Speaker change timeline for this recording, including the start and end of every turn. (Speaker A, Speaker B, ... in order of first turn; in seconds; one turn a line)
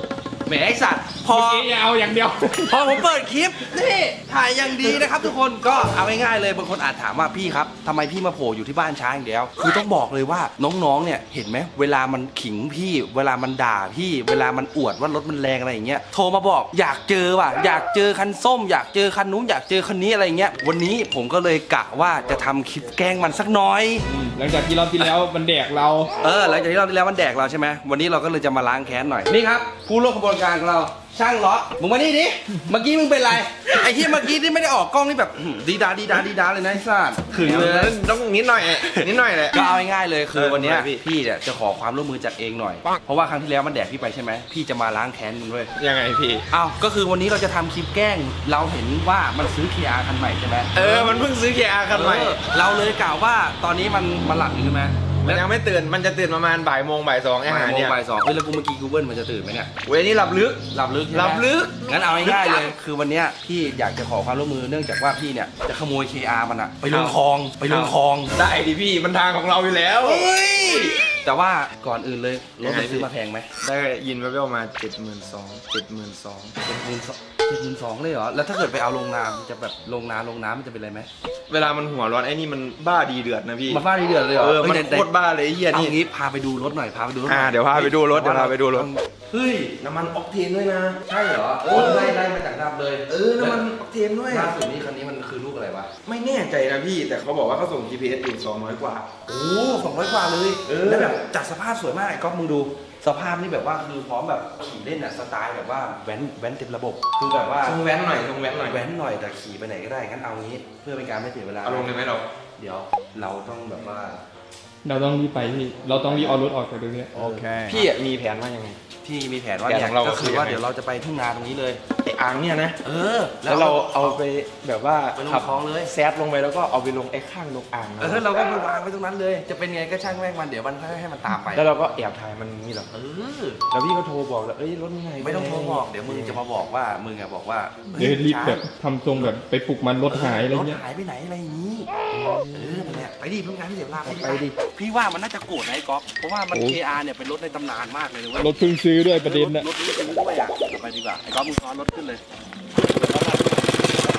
Speaker A: 0.5-1.7
Speaker B: 1.3-3.1
Speaker A: 2.6-24.1
Speaker B: 24.1-26.1
Speaker A: 26.2-38.0
Speaker C: 37.3-39.6
Speaker A: 38.8-45.7
Speaker C: 40.3-41.0
Speaker C: 45.8-46.5
Speaker A: 46.5-51.2
Speaker C: 50.7-52.4
Speaker A: 51.9-55.4
Speaker C: 55.2-58.0
Speaker A: 57.4-59.7
Speaker C: 59.8-62.7
Speaker A: 60.7-68.3
Speaker C: 66.8-70.3
Speaker A: 70.0-73.5
Speaker C: 72.6-73.1
Speaker C: 73.6-76.6
Speaker A: 76.6-81.1
Speaker C: 81.5-86.0
Speaker A: 83.7-85.1
Speaker A: 85.7-89.7
Speaker C: 87.2-88.9
Speaker C: 89.8-91.0
Speaker A: 91.1-93.7
Speaker C: 91.6-92.2
Speaker C: 93.1-94.5
Speaker A: 94.3-95.9
Speaker C: 96.0-99.1
Speaker A: 99.2-107.8
Speaker C: 100.7-101.2
Speaker C: 107.6-108.8
Speaker A: 108.5-112.0
Speaker C: 111.6-112.3
Speaker A: 112.6-114.2
Speaker B: 114.8-117.4
Speaker A: 115.9-116.4
Speaker A: 117.1-117.8
Speaker C: 117.7-118.8
Speaker A: 119.0-121.8
Speaker C: 119.7-120.6
Speaker C: 122.0-122.8
Speaker A: 122.8-124.2
Speaker C: 123.4-128.3
Speaker A: 125.2-125.9
Speaker A: 128.0-131.7
Speaker C: 131.5-132.9
Speaker A: 132.9-133.6
Speaker C: 133.7-136.4
Speaker A: 135.2-138.6
Speaker B: 137.9-140.8
Speaker A: 140.1-141.9
Speaker C: 142.2-142.9
Speaker A: 142.5-152.2
Speaker C: 143.6-144.5
Speaker B: 146.5-146.8
Speaker B: 148.4-149.7
Speaker C: 152.9-153.4